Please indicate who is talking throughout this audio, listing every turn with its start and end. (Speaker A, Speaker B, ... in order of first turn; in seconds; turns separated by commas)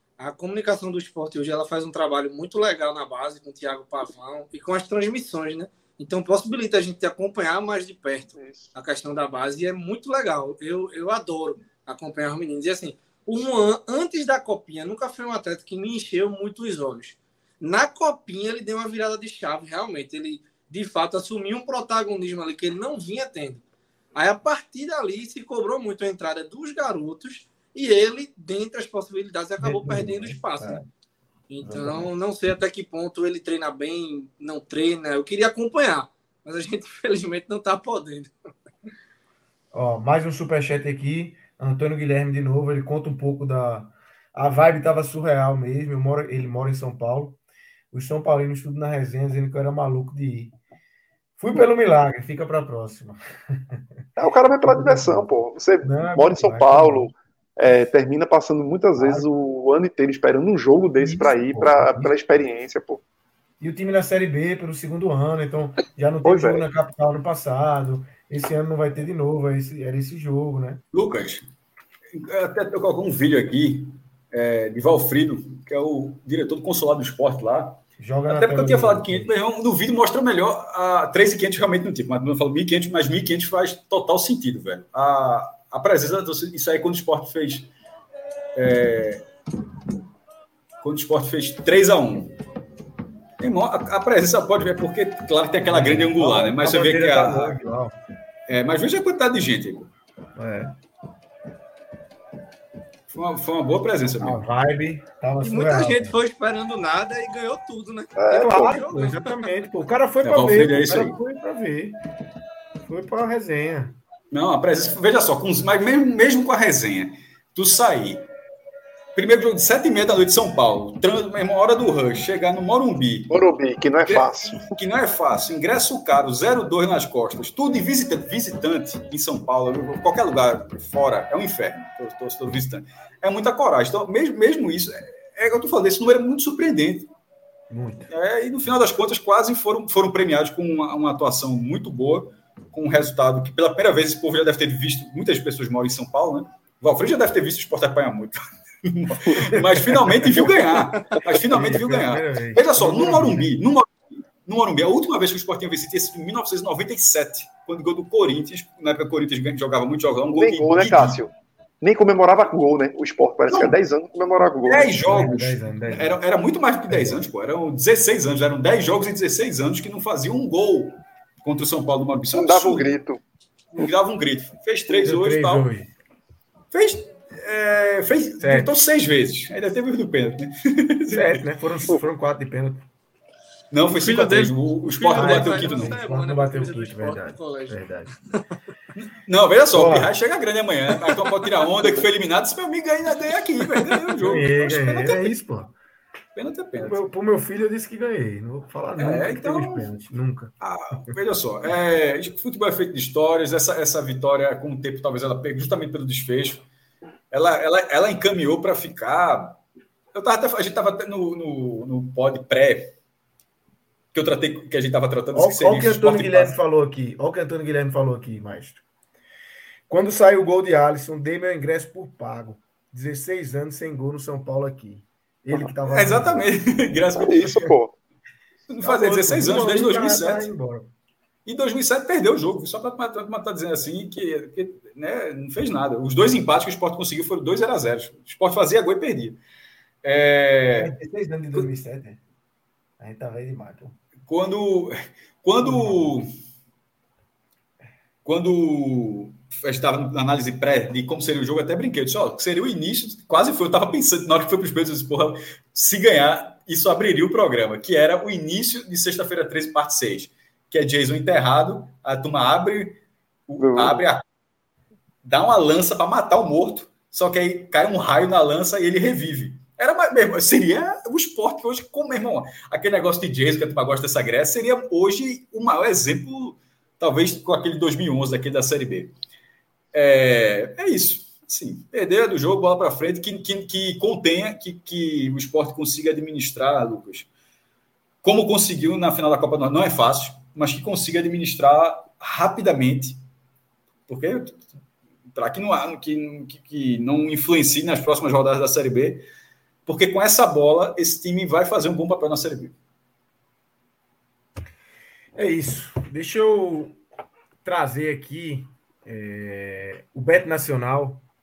Speaker A: 0.2-23.6, Speaker B: 8.4-8.7, Speaker A: 24.2-30.8, Speaker C: 29.6-30.9, Speaker A: 31.5-38.3, Speaker C: 31.6-32.1, Speaker C: 39.7-47.4, Speaker C: 47.9-50.6, Speaker C: 51.4-53.9, Speaker B: 54.2-63.0, Speaker C: 54.7-55.3, Speaker C: 55.8-57.1, Speaker C: 59.0-59.3, Speaker C: 61.0-62.1, Speaker C: 63.6-70.8, Speaker B: 66.2-66.6, Speaker D: 70.9-71.5, Speaker D: 72.1-87.7, Speaker C: 78.0-79.3, Speaker D: 88.5-89.2, Speaker D: 90.8-92.3, Speaker D: 93.4-97.6, Speaker C: 95.7-98.0, Speaker D: 98.5-99.9, Speaker C: 100.3-100.8, Speaker D: 103.1-104.4, Speaker C: 104.2-106.2, Speaker A: 105.4-109.4, Speaker B: 108.2-108.8, Speaker C: 108.3-112.0, Speaker D: 110.2-111.2, Speaker C: 112.9-114.0, Speaker D: 114.3-118.2, Speaker D: 119.2-123.3, Speaker B: 123.3-124.8, Speaker D: 124.0-137.1, Speaker C: 137.7-138.1, Speaker D: 138.1-161.2, Speaker B: 149.3-149.6, Speaker C: 151.5-153.5, Speaker B: 160.3-161.3, Speaker B: 161.8-165.0, Speaker D: 163.5-163.8, Speaker D: 164.7-172.9, Speaker C: 165.0-166.2, Speaker C: 166.9-167.2, Speaker B: 172.3-173.2, Speaker D: 173.7-175.7, Speaker C: 174.9-175.9, Speaker D: 176.7-181.4, Speaker C: 178.4-178.7, Speaker C: 181.1-182.9, Speaker D: 183.7-186.0, Speaker A: 184.0-187.8, Speaker C: 185.1-188.1, Speaker D: 188.9-195.4, Speaker C: 189.7-190.1, Speaker C: 194.2-195.8, Speaker D: 196.3-197.1, Speaker C: 196.8-200.5, Speaker D: 199.0-199.9, Speaker D: 200.6-206.7, Speaker D: 207.3-209.6, Speaker D: 210.1-212.9, Speaker D: 214.1-216.6, Speaker C: 215.3-218.8, Speaker C: 219.9-226.5, Speaker D: 225.9-227.6, Speaker B: 227.2-227.9, Speaker C: 227.4-227.7, Speaker D: 228.7-230.5, Speaker C: 228.8-230.9, Speaker D: 231.5-239.4, Speaker D: 240.0-240.9, Speaker C: 240.8-242.2, Speaker C: 243.0-244.0, Speaker D: 244.3-246.3, Speaker C: 245.6-246.2, Speaker D: 248.2-264.2, Speaker B: 263.6-264.0, Speaker D: 265.2-279.1, Speaker D: 279.9-287.3, Speaker D: 288.2-293.2, Speaker D: 294.1-294.7, Speaker D: 295.3-299.2, Speaker D: 299.9-302.8, Speaker C: 305.4-307.0, Speaker C: 307.6-311.2